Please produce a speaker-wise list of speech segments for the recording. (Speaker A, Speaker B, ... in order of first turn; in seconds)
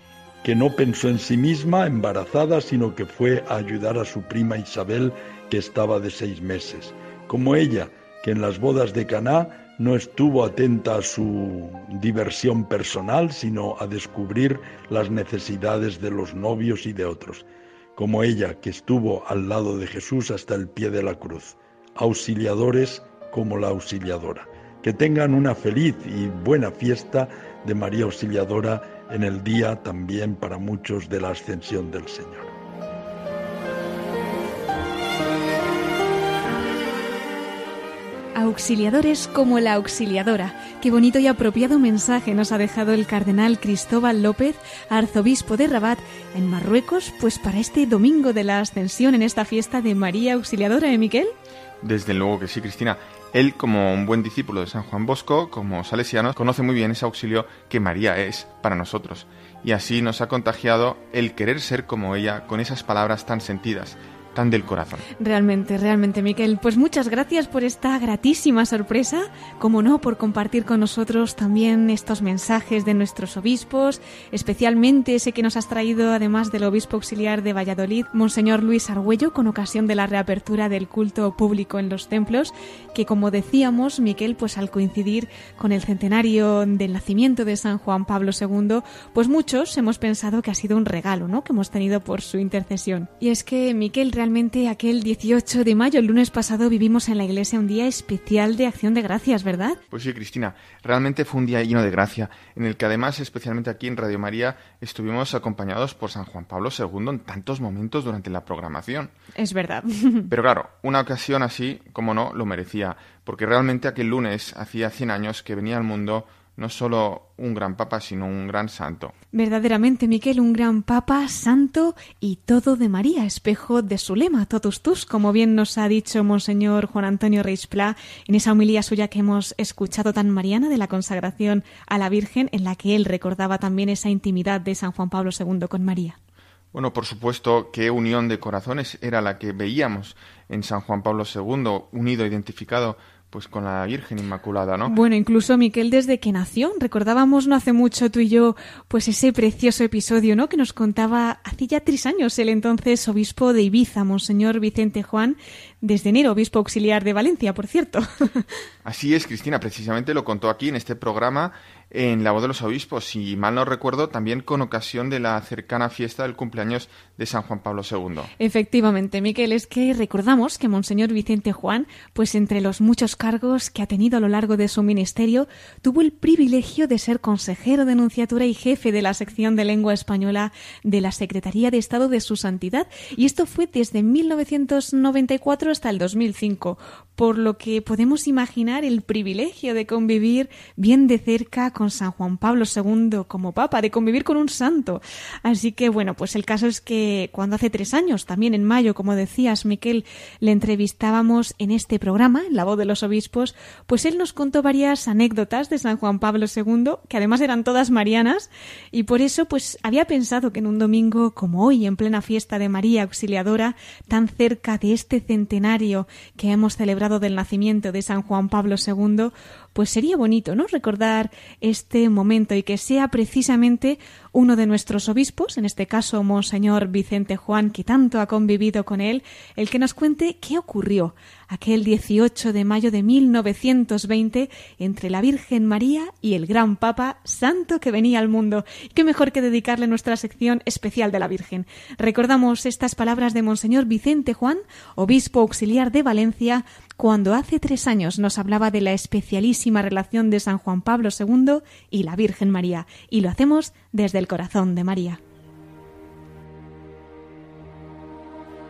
Speaker A: 0.4-32.5
Speaker B: 38.4-51.3, 65.2-99.8, 109.4-110.3, 119.3-136.2, 144.8-158.5, 168.4-255.2
Speaker C: 51.8-65.0, 99.9-109.1, 110.3-119.1, 136.7-144.9, 158.8-168.3